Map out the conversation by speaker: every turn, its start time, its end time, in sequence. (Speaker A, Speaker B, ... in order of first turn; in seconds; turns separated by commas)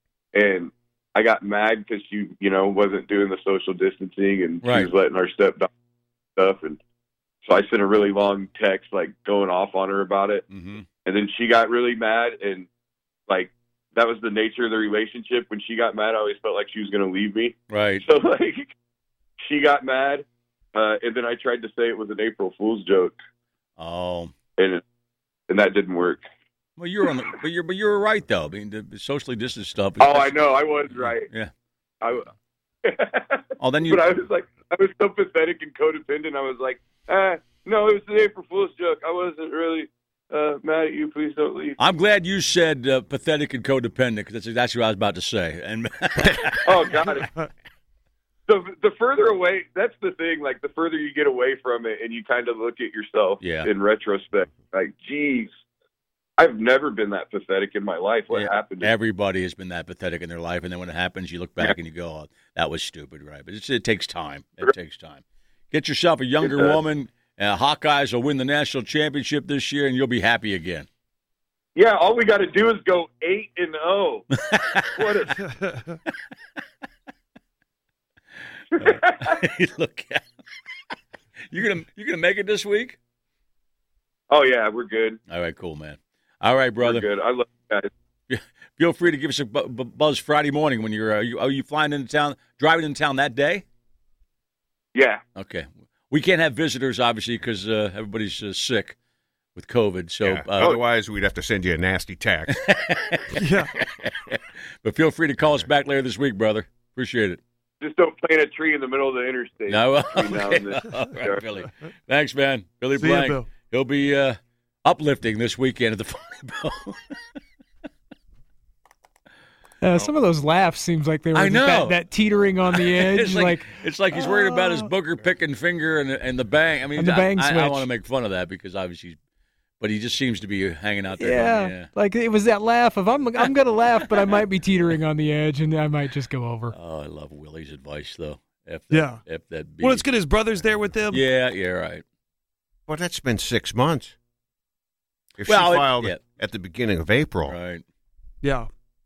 Speaker A: 0.3-5.7, Speaker B: 4.6-4.9, Speaker A: 6.4-6.8, Speaker A: 7.4-10.4, Speaker B: 10.5-10.8, Speaker A: 11.1-12.7, Speaker A: 13.3-18.7, Speaker B: 17.7-18.1, Speaker A: 19.4-23.2, Speaker B: 23.8-24.3, Speaker A: 24.6-24.8, Speaker A: 25.5-26.2, Speaker B: 26.8-30.5, Speaker A: 30.0-31.3, Speaker A: 32.0-32.3, Speaker A: 32.8-41.8, Speaker B: 33.6-34.1, Speaker B: 41.8-46.9, Speaker A: 46.6-47.3, Speaker A: 48.5-55.6, Speaker B: 53.4-53.7, Speaker A: 56.4-58.9, Speaker B: 58.3-70.9, Speaker A: 66.4-66.8, Speaker A: 71.7-74.3, Speaker B: 74.4-75.2, Speaker A: 74.8-75.5, Speaker C: 75.5-75.9, Speaker A: 78.8-79.4, Speaker B: 78.8-80.2, Speaker B: 81.5-83.0, Speaker A: 84.3-85.2, Speaker B: 85.3-87.0, Speaker A: 86.8-87.9, Speaker B: 88.3-93.6, Speaker A: 94.9-95.2, Speaker B: 95.3-99.0, Speaker B: 99.5-100.8, Speaker D: 100.2-102.6, Speaker B: 102.5-107.4, Speaker C: 103.3-103.7, Speaker A: 107.8-111.4, Speaker B: 109.7-117.2, Speaker C: 113.0-113.5, Speaker E: 119.8-124.9, Speaker B: 121.3-122.0, Speaker B: 122.7-129.2, Speaker E: 127.0-127.9, Speaker B: 129.8-131.9, Speaker E: 131.2-136.7, Speaker B: 134.1-134.4, Speaker B: 136.7-140.1, Speaker C: 138.9-139.2, Speaker C: 139.8-141.2, Speaker B: 141.1-142.0, Speaker D: 142.9-144.1, Speaker D: 145.4-147.6, Speaker B: 145.4-146.2, Speaker B: 147.4-147.8, Speaker C: 148.4-148.7